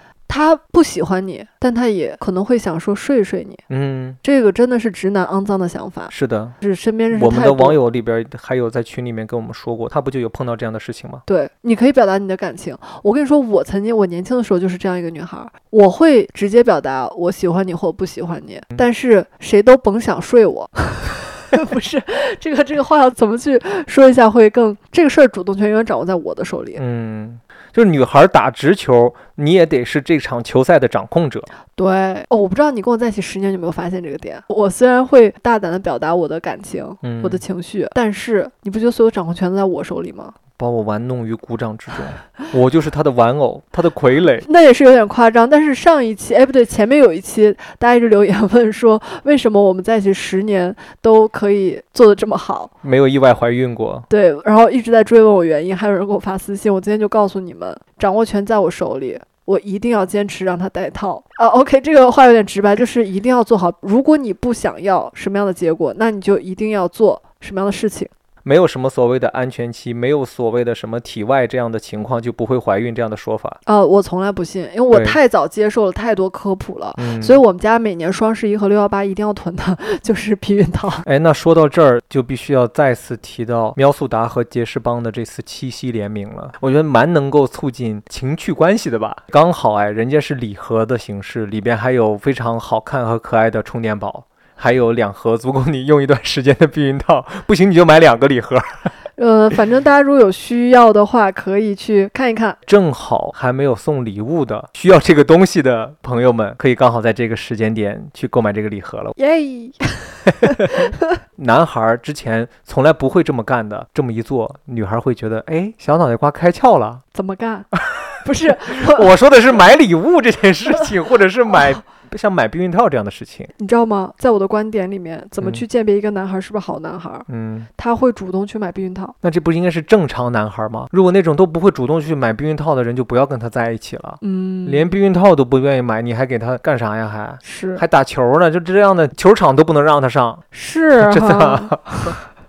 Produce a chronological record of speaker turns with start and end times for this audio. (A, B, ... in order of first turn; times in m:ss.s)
0:00.3-0:03.6 A
0:03.7-0:04.2 B
0:04.2-0:07.8 A
0:06.1-0:06.6 B
0:07.1-0:11.2 B
0:11.3-0:26.8 A
0:26.8-0:31.5 B
0:31.8-0:40.4 A
0:37.0-0:37.4 B
0:40.6-0:44.5 B
0:44.4-0:52.7 A
0:52.8-0:54.1 B
0:54.1-1:08.1 A
1:08.4-1:13.6 B
1:13.7-1:21.0 A
1:14.9-1:15.2 B
1:17.0-1:17.4 B
1:21.0-1:38.9 B
1:39.2-1:42.6 A
1:42.7-1:49.2 B
1:49.2-1:50.8 A
1:50.5-1:50.8 B
1:51.4-1:57.0 B
1:57.1-1:57.7 A
1:57.8-1:58.2 B
1:58.2-1:59.1 A
1:58.7-2:03.5 B
2:03.6-2:07.3 A
2:07.3-2:07.7 B
2:07.8-2:09.2 A
2:09.2-2:20.4 B
2:14.2-2:14.9 A
2:17.4-2:17.8 A
2:20.5-2:22.2 A
2:21.0-2:22.2 B